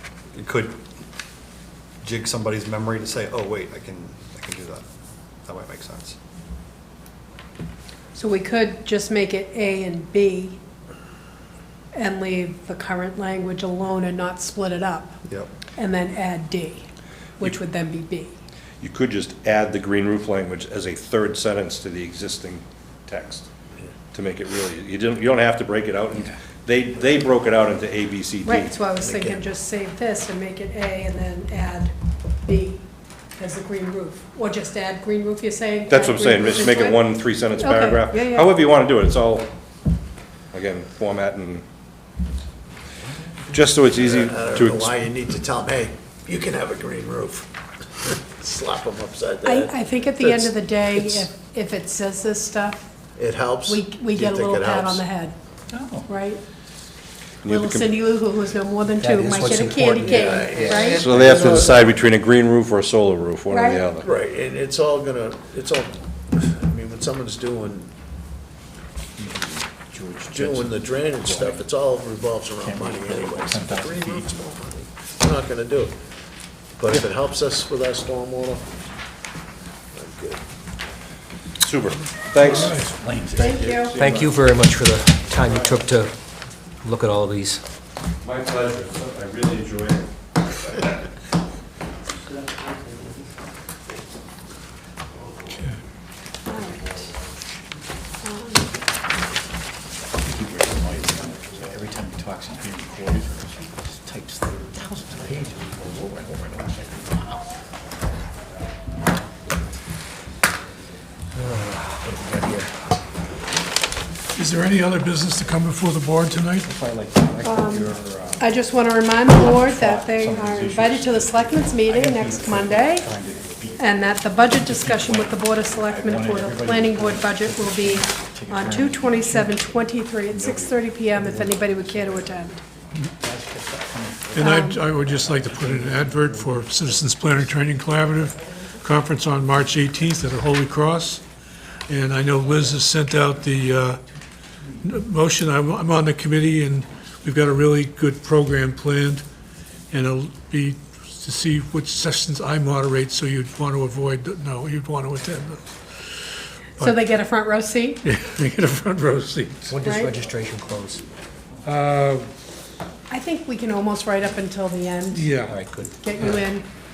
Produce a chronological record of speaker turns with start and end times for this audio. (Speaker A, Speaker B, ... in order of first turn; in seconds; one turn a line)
Speaker A: 0.3-0.8
Speaker A: 2.0-4.8
Speaker A: 5.5-6.2
Speaker B: 8.1-10.6
Speaker B: 11.9-15.2
Speaker A: 15.2-15.5
Speaker B: 15.8-16.9
Speaker B: 17.4-18.4
Speaker C: 18.8-23.4
Speaker D: 18.8-19.3
Speaker D: 23.1-23.4
Speaker C: 24.1-28.7
Speaker D: 25.0-25.5
Speaker D: 26.1-27.0
Speaker B: 28.4-31.9
Speaker B: 32.5-32.8
Speaker B: 33.4-38.5
Speaker C: 35.9-39.5
Speaker C: 40.5-41.6
Speaker C: 43.6-44.8
Speaker E: 44.0-47.5
Speaker E: 48.0-51.0
Speaker B: 49.5-52.9
Speaker E: 53.2-55.0
Speaker B: 53.7-55.4
Speaker F: 55.7-56.1
Speaker B: 56.1-56.4
Speaker D: 57.4-57.8
Speaker B: 57.5-61.1
Speaker D: 59.0-62.2
Speaker E: 59.7-61.9
Speaker C: 61.0-64.0
Speaker D: 62.9-63.6
Speaker B: 63.5-63.9
Speaker E: 64.0-67.9
Speaker F: 69.2-71.7
Speaker D: 69.9-70.7
Speaker E: 70.3-76.0
Speaker F: 72.6-74.5
Speaker E: 76.8-78.8
Speaker E: 79.9-80.4
Speaker D: 81.6-82.6
Speaker C: 81.7-82.8
Speaker G: 82.4-82.9
Speaker F: 82.6-83.6
Speaker D: 83.3-86.1
Speaker B: 83.4-84.0
Speaker C: 83.5-84.3
Speaker C: 85.4-85.7
Speaker D: 86.8-87.6
Speaker D: 88.2-90.1
Speaker C: 88.2-90.1
Speaker G: 95.5-95.8
Speaker B: 96.5-96.8
Speaker D: 96.8-97.1
Speaker B: 98.2-98.7
Speaker F: 100.2-107.4
Speaker D: 101.2-102.6
Speaker D: 104.3-107.4
Speaker D: 111.4-112.8
Speaker F: 111.6-112.5
Speaker G: 114.3-116.7
Speaker F: 116.8-118.5
Speaker D: 117.4-118.0
Speaker B: 117.4-123.1
Speaker F: 119.3-129.6
Speaker B: 123.7-132.6
Speaker F: 130.3-132.4
Speaker F: 133.2-136.6
Speaker G: 134.3-141.2
Speaker B: 134.4-134.8
Speaker G: 141.9-144.0
Speaker G: 144.8-149.2
Speaker G: 149.9-157.0
Speaker B: 156.8-158.0
Speaker G: 158.0-159.8
Speaker D: 159.7-161.0
Speaker B: 159.8-160.3
Speaker G: 161.6-162.3
Speaker B: 163.1-165.4
Speaker G: 165.1-166.5
Speaker D: 165.5-166.4
Speaker B: 166.0-166.7